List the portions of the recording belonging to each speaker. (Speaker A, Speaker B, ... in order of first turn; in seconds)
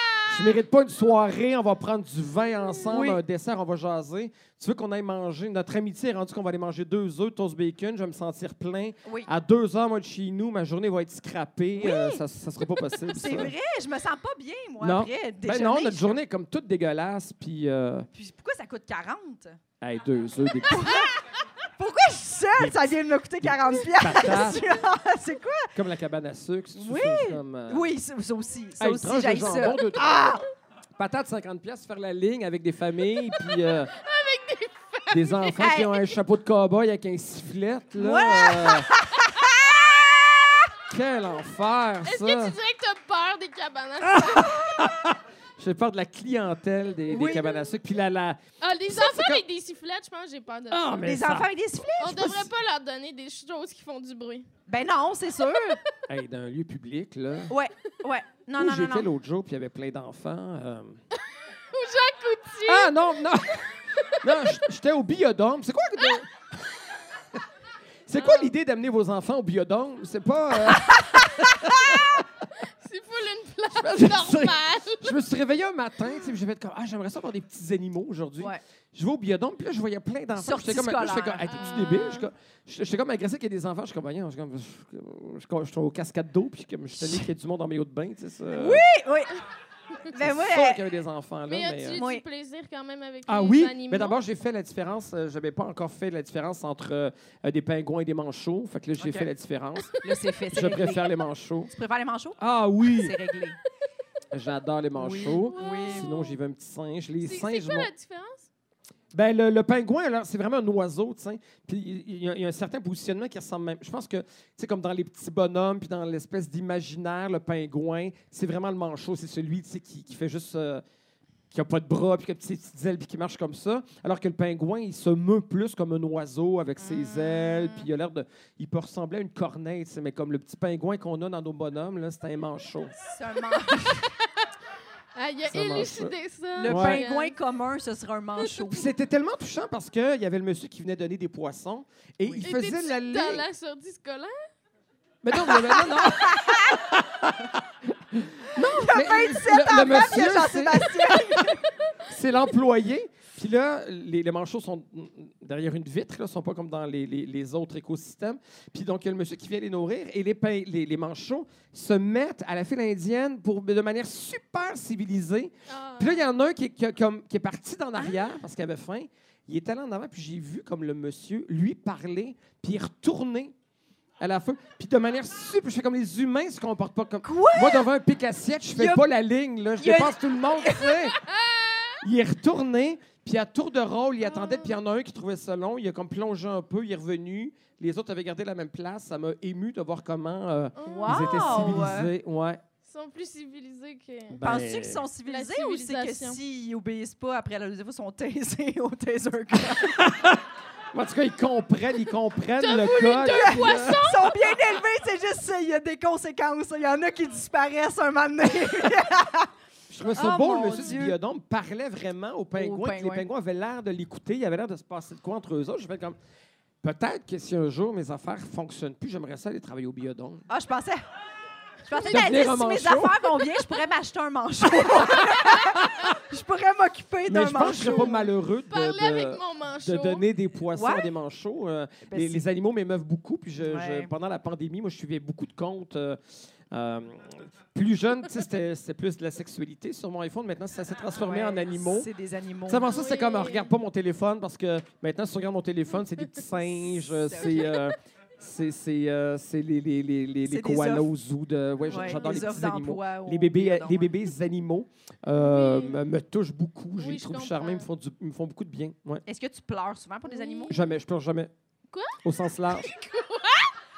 Speaker A: 0.3-13.5, 14.8-18.1, 19.8-21.1, 22.6-24.7, 25.7-27.9, 28.8-30.1, 31.0-33.9, 35.1-38.9, 40.9-42.5, 44.0-49.4, 50.7-51.5, 56.1-57.5, 58.6-61.0, 62.6-66.7, 68.1-72.3, 73.7-88.8, 90.2-92.0, 93.3-99.9, 100.5-101.7, 102.4-103.2, 104.3-107.9, 109.1-120.8, 121.5-132.9, 135.5-137.0, 138.7-143.4, 145.2-151.4, 152.1-173.5, 174.2-181.2, 182.0-192.6, 194.3-195.0, 199.6-204.0, 209.9-216.2, 216.8-220.5, 222.1-223.3, 224.8-226.1, 227.3-236.2, 236.7-242.1, 242.7-259.2, 260.7-261.5, 262.2-262.9
Speaker B: 2.9-3.2, 11.8-12.2, 13.1-16.1, 18.1-19.6, 20.7-25.7, 26.7-30.4, 35.6-35.9, 38.0-40.7, 47.1-47.6, 51.0-52.5, 54.7-55.8, 57.5-59.1, 80.3-81.9, 88.5-89.4, 90.1-90.8, 91.9-92.2, 99.0-99.3, 100.0-101.1, 101.7-103.6, 105.0-106.1, 133.0-134.1, 136.6-138.9, 145.5-146.7, 148.6-151.6, 177.2-177.9, 178.8-179.0, 179.8-180.9, 190.8-192.1, 194.4-200.0, 203.2-209.5, 210.1-211.2, 212.5-213.3, 220.5-221.0, 221.8-228.2, 230.7-231.1, 232.1-232.4, 233.6-234.1, 241.1-242.9, 247.1-247.8, 250.4-251.1, 251.9-254.1, 259.2-260.7
Speaker C: 33.9-35.8, 42.0-44.7, 48.6-51.0, 52.0-54.5, 61.7-63.0, 64.2-64.5, 72.6-75.1, 81.5-82.3, 91.5-94.2, 105.3-106.3, 107.2-108.5, 135.1-137.3, 142.4-144.4, 165.7-166.2, 181.4-182.0, 184.3-184.8, 190.8-191.8, 192.8-194.4, 195.2-196.4, 202.6-204.4, 221.9-222.3, 227.8-228.2, 228.7-230.2, 242.9-243.7, 251.9-252.3, 255.3-256.0, 257.0-257.9, 260.3-260.8, 261.9-262.2, 262.7-263.7